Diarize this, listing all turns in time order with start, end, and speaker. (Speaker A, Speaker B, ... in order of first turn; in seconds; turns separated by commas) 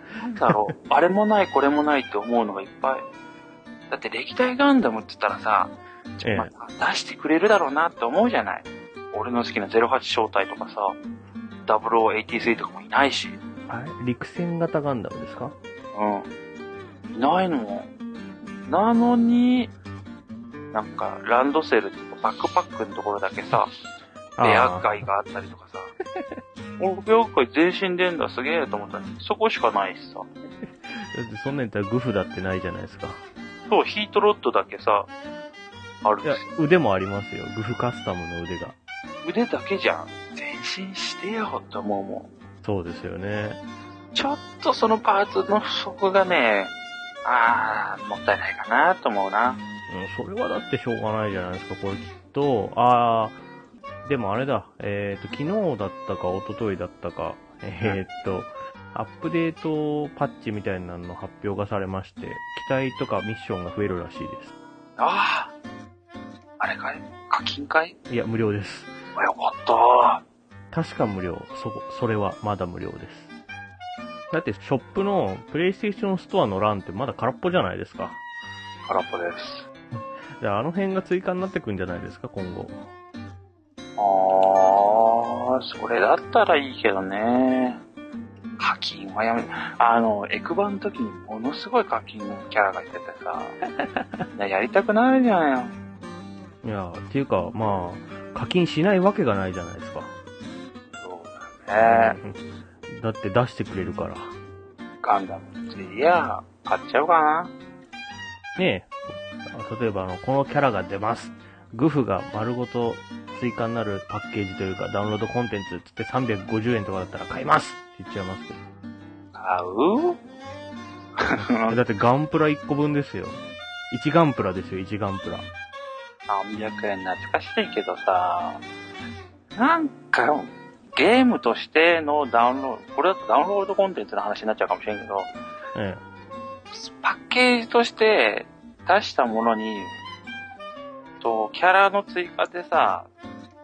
Speaker A: 0.1-3.0, Speaker B: 0.4-0.7, Speaker A: 3.9-11.0, Speaker B: 6.2-6.5, Speaker A: 11.7-13.4, Speaker B: 13.7-15.5, Speaker A: 15.9-16.3, Speaker A: 17.1-17.9, Speaker A: 18.6-19.7, Speaker A: 20.7-23.7, Speaker B: 24.4-24.9, Speaker A: 24.4-25.9, Speaker A: 26.8-30.3, Speaker B: 30.9-33.2, Speaker A: 33.7-35.1, Speaker A: 36.0-36.4, Speaker B: 36.2-38.8, Speaker A: 39.2-42.3, Speaker B: 42.6-43.6, Speaker A: 44.1-46.7, Speaker A: 47.2-49.6, Speaker B: 49.9-53.4, Speaker B: 54.0-64.5, Speaker A: 65.0-65.5, Speaker A: 66.6-68.0, Speaker B: 68.1-68.9, Speaker A: 69.1-70.2, Speaker B: 70.7-73.3, Speaker B: 74.3-78.2, Speaker A: 78.8-79.7, Speaker B: 79.9-82.8, Speaker A: 84.0-87.8, Speaker A: 88.6-93.6, Speaker B: 93.8-94.2, Speaker A: 94.3-95.8, Speaker B: 96.6-100.1, Speaker A: 101.0-102.2, Speaker B: 101.8-104.3, Speaker A: 105.0-107.5, Speaker B: 108.5-108.9, Speaker B: 109.5-118.6, Speaker A: 119.3-120.2, Speaker A: 121.2-121.8, Speaker B: 121.7-125.5, Speaker A: 126.3-128.6, Speaker A: 129.5-135.3, Speaker B: 135.7-136.0, Speaker A: 136.7-140.0, Speaker A: 141.2-143.1